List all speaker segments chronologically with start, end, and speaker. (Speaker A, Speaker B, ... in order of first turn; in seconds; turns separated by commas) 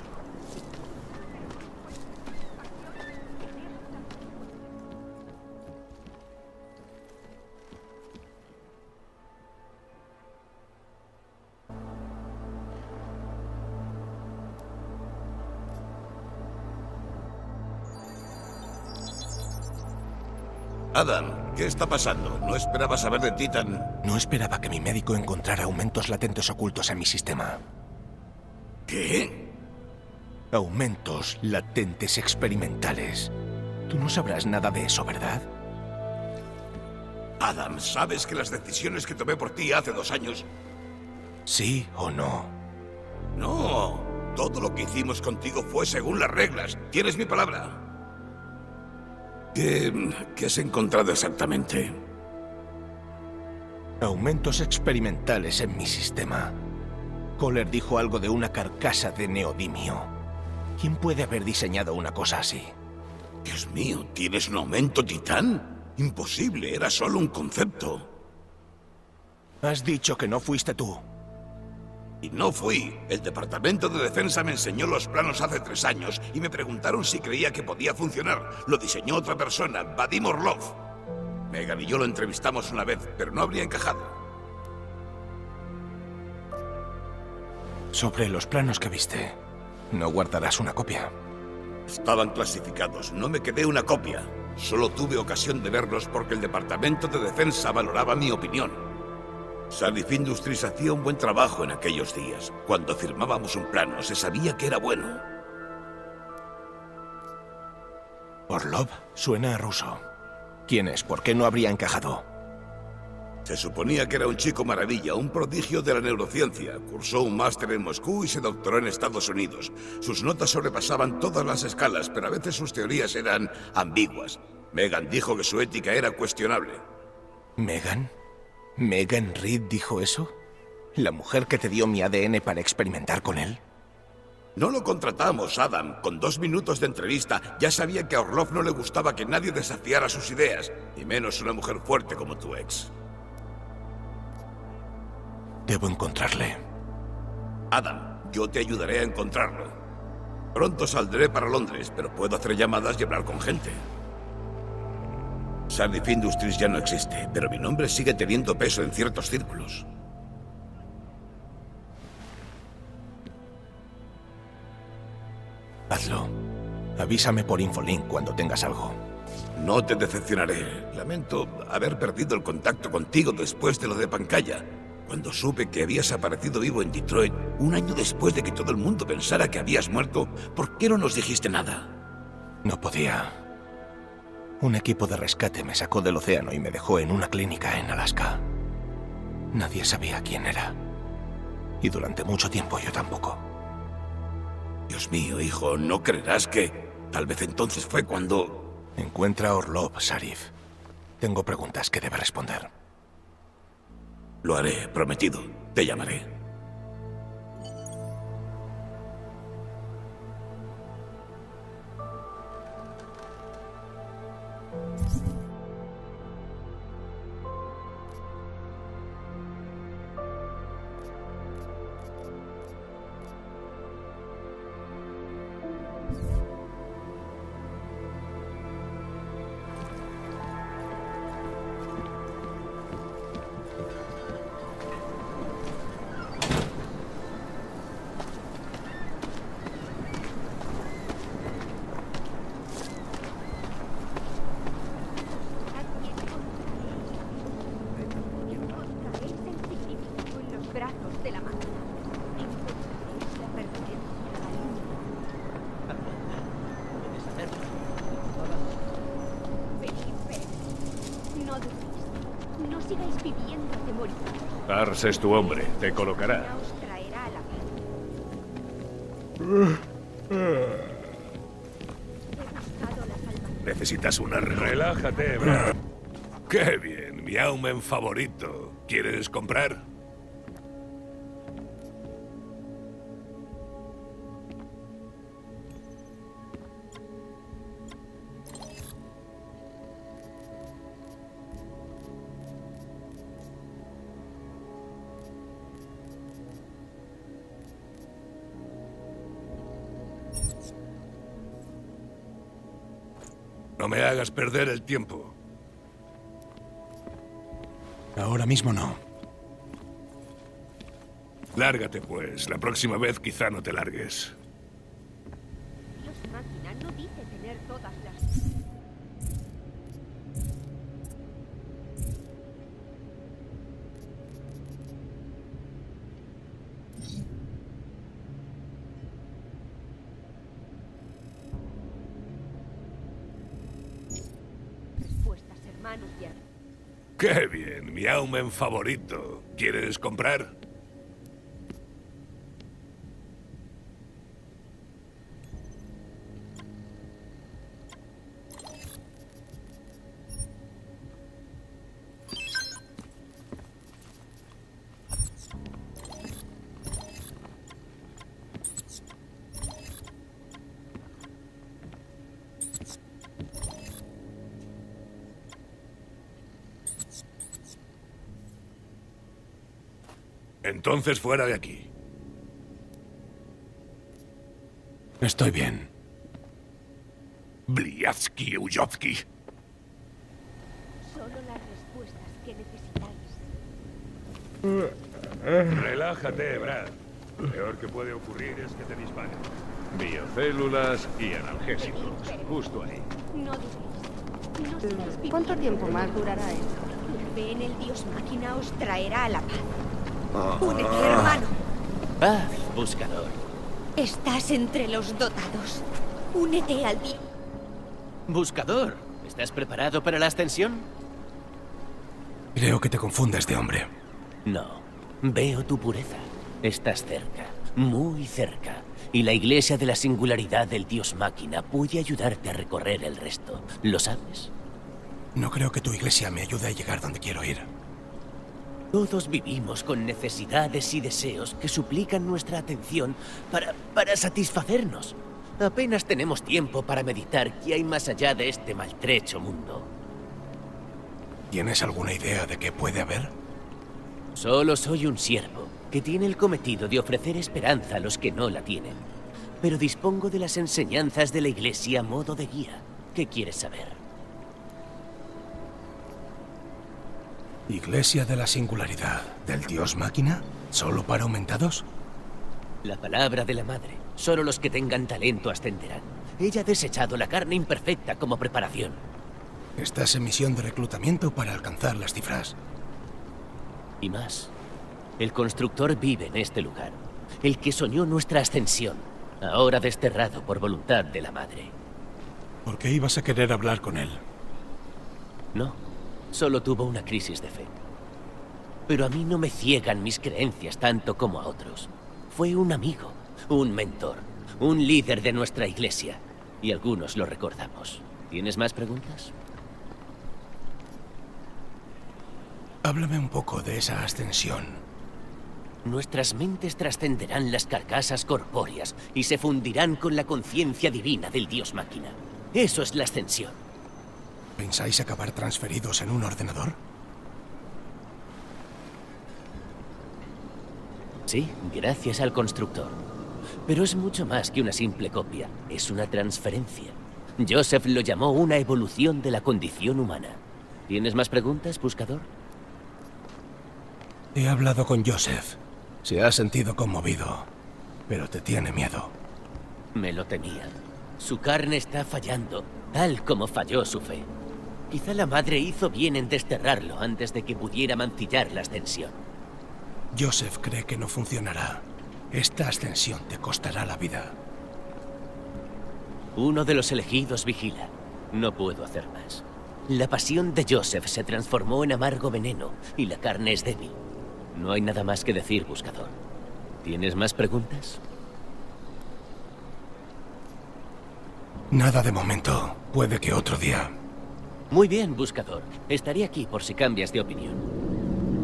Speaker A: 1.0-4.8, Speaker B: 20.9-23.9, Speaker C: 24.0-27.6, Speaker B: 28.9-29.5, Speaker C: 30.5-33.3, Speaker C: 33.9-35.5, Speaker B: 37.4-40.4, Speaker C: 41.5-42.5, Speaker B: 43.4-47.8, Speaker B: 49.5-52.0, Speaker C: 54.0-56.6, Speaker C: 57.4-60.1, Speaker C: 60.8-62.7, Speaker B: 63.4-68.1, Speaker C: 69.6-71.0, Speaker B: 72.2-80.8, Speaker B: 81.5-84.2, Speaker C: 87.9-89.4, Speaker C: 89.9-91.1, Speaker B: 91.9-98.8, Speaker B: 99.7-105.2, Speaker C: 108.5-110.0, Speaker C: 110.7-112.2, Speaker B: 113.4-126.8, Speaker C: 127.6-128.1, Speaker C: 128.8-130.3, Speaker C: 130.9-133.6, Speaker B: 134.6-142.9, Speaker C: 145.7-146.6, Speaker B: 147.7-149.8, Speaker B: 150.5-153.8, Speaker B: 155.7-159.8, Speaker C: 165.9-166.3, Speaker C: 167.0-169.0, Speaker B: 169.6-181.9, Speaker C: 182.6-183.4, Speaker C: 184.6-188.4, Speaker C: 189.5-190.8, Speaker C: 191.8-193.4, Speaker B: 194.9-198.7, Speaker C: 199.0-200.5, Speaker C: 201.2-202.7, Speaker B: 204.4-206.3, Speaker A: 245.5-255.1, Speaker D: 255.9-258.6, Speaker A: 259.7-267.8, Speaker E: 264.7-266.6, Speaker A: 272.3-274.2, Speaker F: 273.7-275.7, Speaker A: 275.0-275.2, Speaker F: 276.5-279.8, Speaker F: 303.8-305.3, Speaker C: 308.1-309.0, Speaker F: 311.5-314.4, Speaker A: 315.9-318.5, Speaker A: 335.0-336.4, Speaker F: 337.2-340.5, Speaker F: 370.6-371.9, Speaker C: 375.2-375.9, Speaker F: 377.7-379.2, Speaker A: 381.0-383.5, Speaker F: 385.7-386.8, Speaker E: 386.0-386.8, Speaker E: 387.4-393.1, Speaker A: 391.7-392.7, Speaker A: 393.3-396.2, Speaker G: 394.8-396.8, Speaker A: 397.0-399.7, Speaker A: 400.6-401.6, Speaker D: 402.2-403.4, Speaker A: 403.9-407.2, Speaker D: 408.3-410.9, Speaker C: 412.5-413.9, Speaker D: 414.4-424.5, Speaker C: 425.3-427.7, Speaker D: 428.9-439.9, Speaker C: 441.5-443.3, Speaker D: 444.3-449.0, Speaker D: 449.6-454.0, Speaker C: 457.7-461.8, Speaker D: 462.8-469.0, Speaker C: 469.8-472.6, Speaker D: 474.0-474.5, Speaker D: 475.2-481.7, Speaker C: 482.6-484.2, Speaker D: 485.5-485.8, Speaker D: 486.3-487.8, Speaker D: 488.9-499.3, Speaker C: 502.8-504.8, Speaker D: 505.8-513.5, Speaker C: 514.6-516.8, Speaker D: 521.3-523.0, Speaker D: 523.6-532.3, Speaker C: 534.3-537.5, Speaker C: 538.1-539.1, Speaker D: 539.9-544.3, Speaker D: 544.9-549.2, Speaker C: 550.1-554.4, Speaker D: 556.4-564.0, Speaker D: 564.5-566.1, Speaker D: 566.8-568.0, Speaker C: 571.7-573.9, Speaker D: 574.7-577.6